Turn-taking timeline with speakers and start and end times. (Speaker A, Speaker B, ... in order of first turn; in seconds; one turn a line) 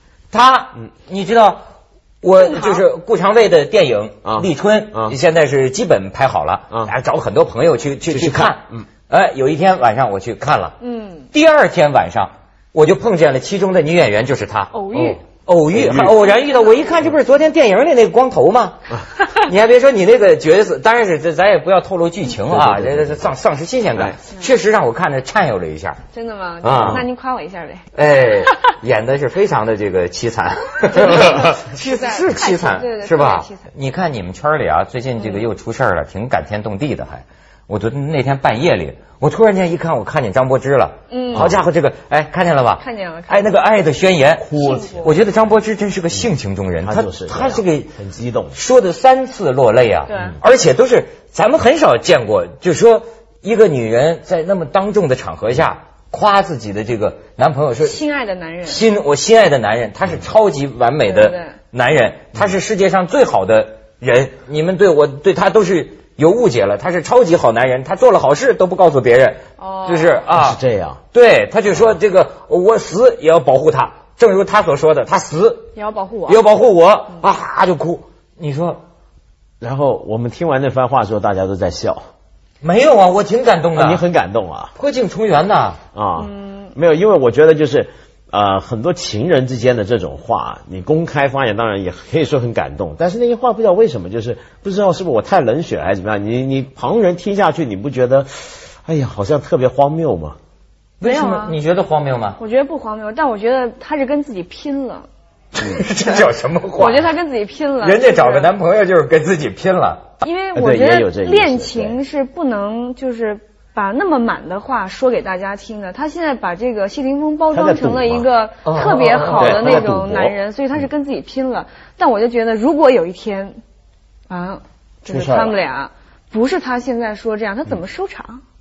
Speaker A: 0.3-1.6
Speaker A: 2.2-10.8
Speaker B: 4.2-5.2
Speaker B: 8.1-8.9
Speaker C: 10.8-11.3
Speaker A: 11.3-26.0
Speaker C: 14.7-15.2
Speaker B: 14.9-15.2
Speaker B: 15.7-16.3
Speaker C: 16.3-17.1
Speaker B: 22.5-23.2
Speaker C: 26.1-27.9
Speaker A: 26.6-27.0
Speaker B: 26.7-27.0
Speaker A: 27.9-44.5
Speaker C: 30.9-33.7
Speaker C: 41.1-41.5
Speaker B: 41.3-41.6
Speaker C: 42.8-43.6
Speaker B: 44.4-45.2
Speaker C: 44.6-45.1
Speaker A: 45.0-47.9
Speaker B: 46.8-48.6
Speaker A: 48.5-58.0
Speaker C: 50.1-50.4
Speaker C: 57.8-58.8
Speaker A: 58.6-70.6
Speaker C: 61.0-61.5
Speaker C: 69.6-70.2
Speaker B: 70.3-71.0
Speaker A: 71.1-75.7
Speaker C: 75.8-76.4
Speaker A: 76.3-78.8
Speaker B: 79.6-82.1
Speaker A: 82.6-84.0
Speaker B: 83.7-84.7
Speaker A: 84.8-85.8
Speaker B: 85.9-100.4
Speaker C: 86.2-86.7
Speaker A: 101.0-102.4
Speaker C: 101.0-101.6
Speaker C: 102.4-105.1
Speaker A: 105.5-107.1
Speaker C: 106.7-108.5
Speaker A: 107.8-110.1
Speaker C: 110.2-123.6
Speaker B: 110.5-112.0
Speaker B: 117.5-118.3
Speaker A: 118.7-119.8
Speaker B: 119.3-120.3
Speaker C: 124.3-128.4
Speaker B: 125.1-125.6